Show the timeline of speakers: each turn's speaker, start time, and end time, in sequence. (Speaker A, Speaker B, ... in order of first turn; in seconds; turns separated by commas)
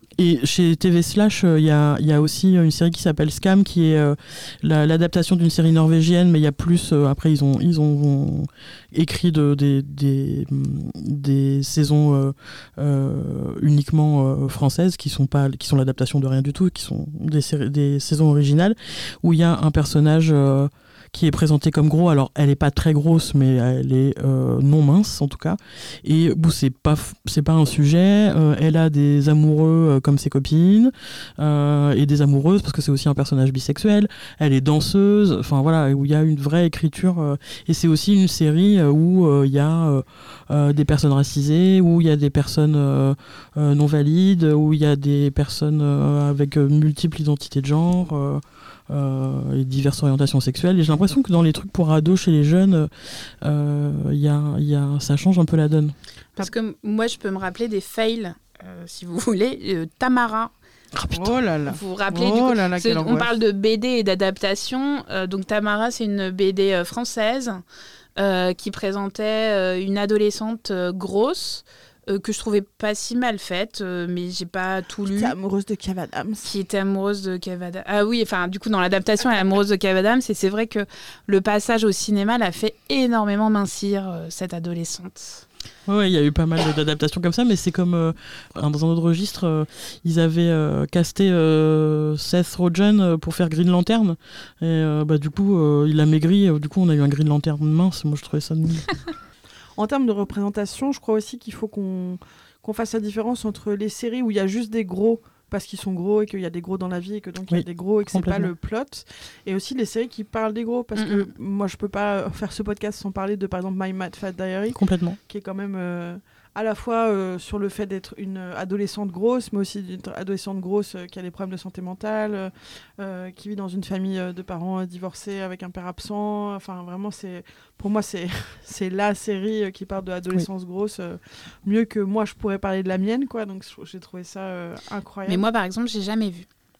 Speaker A: 0.2-56.0, Speaker B: 56.4-60.5, Speaker A: 61.0-61.3, Speaker C: 61.1-63.4, Speaker B: 61.7-67.6, Speaker B: 68.2-75.3, Speaker C: 75.0-76.5, Speaker B: 76.4-85.4, Speaker A: 85.9-98.9, Speaker C: 99.8-135.4, Speaker A: 107.5-108.5, Speaker B: 111.0-111.3, Speaker A: 114.8-115.2, Speaker B: 135.3-136.5